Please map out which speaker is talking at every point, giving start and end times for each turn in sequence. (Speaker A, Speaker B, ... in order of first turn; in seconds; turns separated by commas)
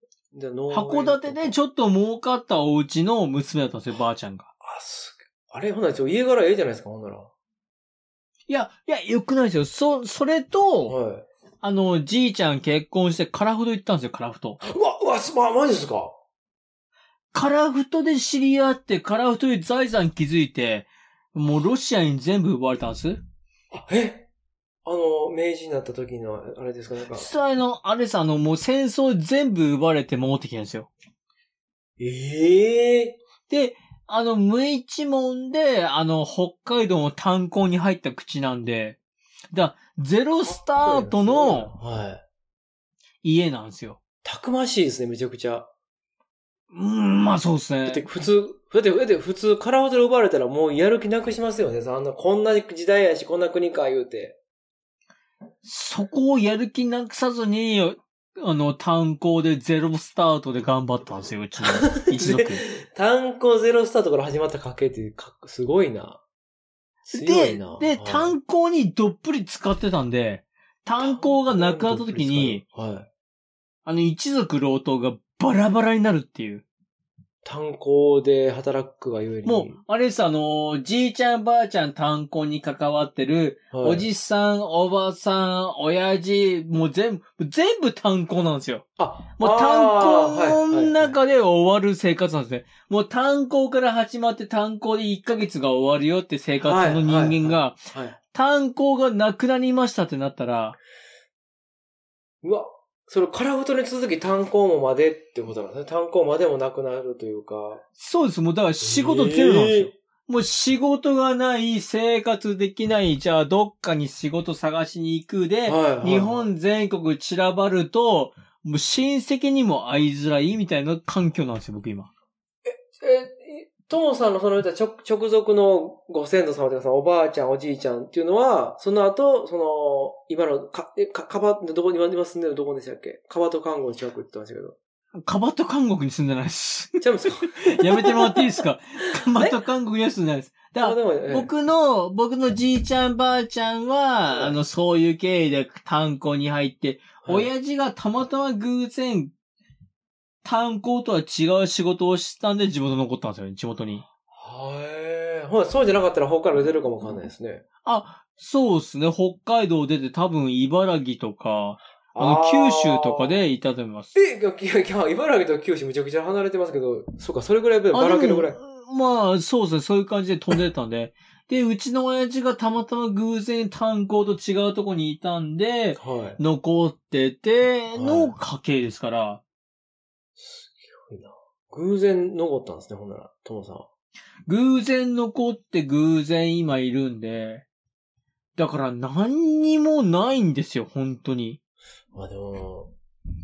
Speaker A: 0.3-1.5, Speaker B: 0.7-4.5, Speaker A: 4.6-7.3, Speaker B: 8.5-10.9, Speaker A: 10.9-11.2, Speaker B: 11.6-14.6, Speaker A: 14.6-16.1, Speaker B: 17.3-23.2, Speaker A: 23.7-24.3, Speaker A: 24.8-27.3, Speaker B: 27.1-30.9, Speaker A: 32.0-33.2, Speaker B: 33.5-39.0, Speaker B: 39.5-41.7, Speaker A: 40.6-42.2, Speaker B: 43.2-44.0, Speaker A: 44.2-45.7, Speaker B: 46.7-48.1, Speaker A: 47.9-54.4, Speaker B: 55.6-62.6, Speaker A: 61.8-66.2, Speaker B: 67.1-72.6, Speaker A: 67.1-68.3, Speaker A: 71.0-73.1, Speaker B: 73.8-76.6, Speaker A: 77.4-79.8, Speaker B: 79.4-88.8, Speaker A: 83.7-84.1, Speaker A: 89.0-91.2, Speaker B: 89.4-97.8, Speaker A: 96.6-98.2, Speaker B: 98.3-100.8, Speaker A: 102.4-107.8, Speaker B: 108.0-122.1, Speaker A: 108.8-109.9, Speaker A: 115.7-116.5, Speaker A: 122.7-134.7, Speaker B: 135.2-149.3, Speaker A: 137.0-138.4, Speaker A: 140.8-141.5, Speaker A: 144.3-144.6, Speaker A: 147.2-147.5, Speaker B: 150.4-154.1, Speaker A: 154.3-157.6, Speaker B: 157.8-164.1, Speaker A: 162.1-163.4, Speaker A: 164.1-168.6, Speaker B: 167.9-179.4, Speaker A: 176.0-176.4, Speaker A: 177.9-178.3, Speaker A: 180.4-183.8, Speaker B: 184.5-187.6, Speaker B: 188.6-191.6, Speaker A: 192.1-192.9